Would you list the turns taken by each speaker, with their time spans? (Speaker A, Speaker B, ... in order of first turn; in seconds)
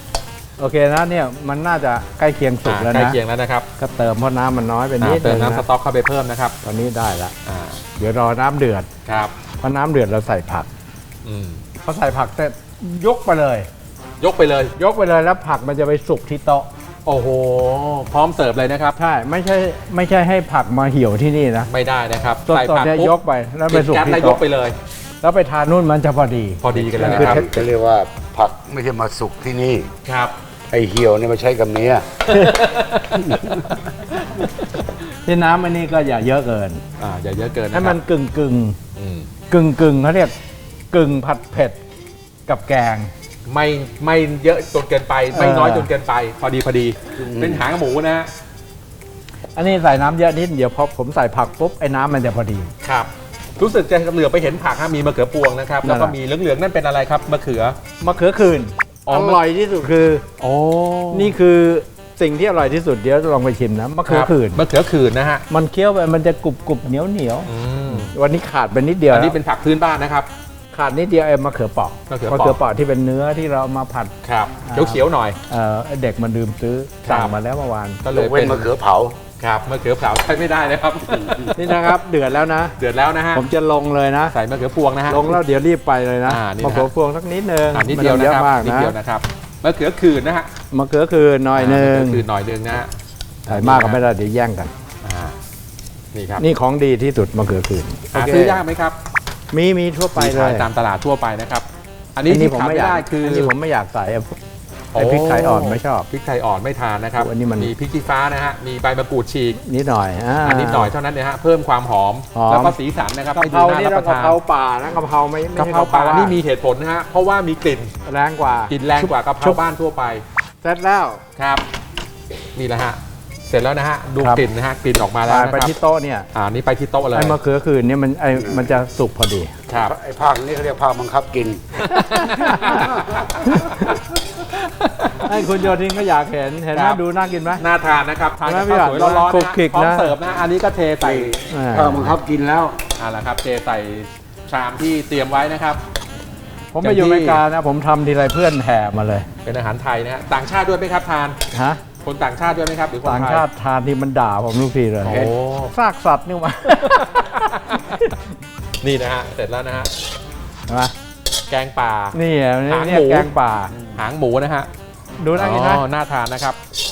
Speaker A: 0.6-3.2, 3.8-5.7, 6.6-7.3, 8.0-8.9, 9.6-10.7, 11.8-13.7, 14.8-16.7, 19.0-21.7, 22.5-24.4, 25.2-27.6, 32.3-32.7, 35.2-36.8, 37.7-38.8, 39.5-40.4, 40.9-41.8, 42.5-43.1, 45.3-45.9, 49.6-52.7, 55.8-56.1, 58.0-60.2, 61.1-64.6, 65.5-69.4, 70.7-74.1, 74.7-78.0, 81.5-82.8, 83.3-84.4, 85.1-89.0, 90.7-92.2, 93.5-94.7, 96.4-98.6, 99.5-100.7, 102.3-104.4, 104.9-106.1, 107.2-107.7, 109.6-110.9, 112.3-112.8, 113.3-116.4, 118.1-119.6, 120.6-121.2, 125.2-126.3, 127.1-129.5, 132.0-132.8, 133.5-133.8, 135.2-137.6, 138.5-140.2, 141.5-142.2, 146.7-149.3, 151.5-151.8, 153.0-158.2, 160.7-160.9, 162.1-163.7, 165.2-165.8
Speaker B: 2.6-3.7, 5.0-6.6, 7.5-7.8, 9.1-9.3, 11.2-11.6, 14.2-14.8, 17.1-19.0, 21.7-23.2, 23.7-24.8, 26.6-27.6, 30.1-30.3, 32.3-33.4, 34.2-34.8, 37.0-38.0, 39.0-39.3, 43.5-48.3, 52.8-57.8, 59.1-59.4, 60.4-61.4, 64.1-65.4, 67.5-68.1, 69.1-70.3, 72.1-72.6, 74.2-75.4, 77.0-77.3, 78.0-78.7, 79.4-81.9, 82.8-83.5, 84.3-85.4, 86.2-86.9, 87.7-90.5, 91.5-92.9, 93.5-94.0, 95.0-95.4, 96.1-96.5, 98.1-99.0, 100.2-103.5, 104.9-109.6, 110.4-114.4, 115.5-117.9, 118.7-120.2, 121.4-121.6, 122.5-125.7, 126.3-127.4, 129.7-130.0, 131.8-133.8, 134.8-135.3, 136.7-137.0, 137.6-141.3, 143.0-145.8, 146.8-147.4, 149.4-151.4, 152.0-153.4, 155.1-155.7, 156.8-158.0, 158.8-159.9, 161.5-162.2, 162.7-164.7, 165.4-166.6
Speaker C: 26.8-29.9, 30.7-32.1, 47.2-47.6, 78.1-79.2, 128.4-128.7, 129.8-131.7, 141.0-142.8